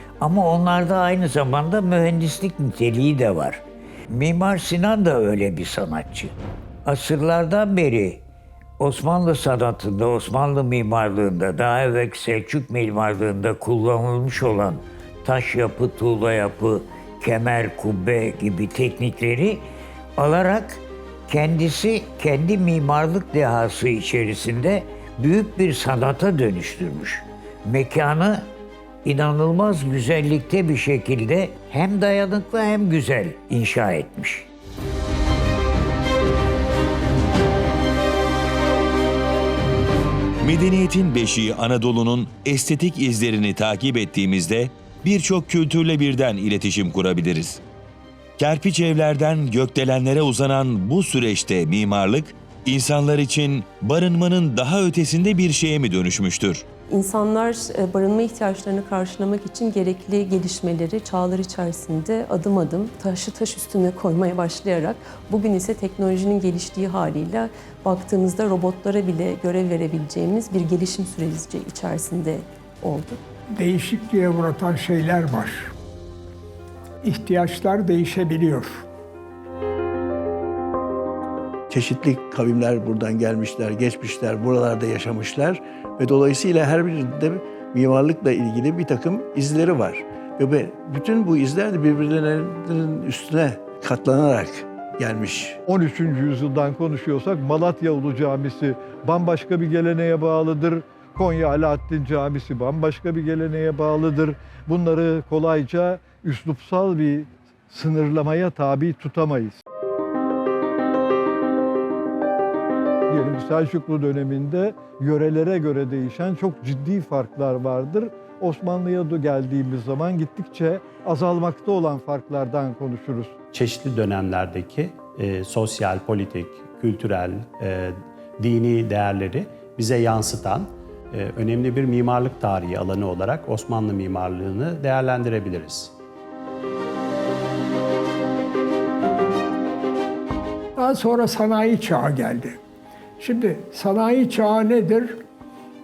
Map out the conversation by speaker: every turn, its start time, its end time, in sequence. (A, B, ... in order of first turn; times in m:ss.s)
0:00.2-0:08.2 A
0:08.8-0:19.6 A
0:20.2-0:28.5 A
0:29.0-0:34.5 A
0:40.4-0:47.6 B
0:48.4-0:56.6 B
0:56.9-1:13.2 C
1:13.6-1:15.7 D
1:17.0-1:18.9 D
1:21.7-1:35.6 E
1:35.7-1:49.6 F
1:53.1-2:03.3 F
2:03.5-2:15.9 G
2:20.8-2:22.6 D
2:23.2-2:25.2 D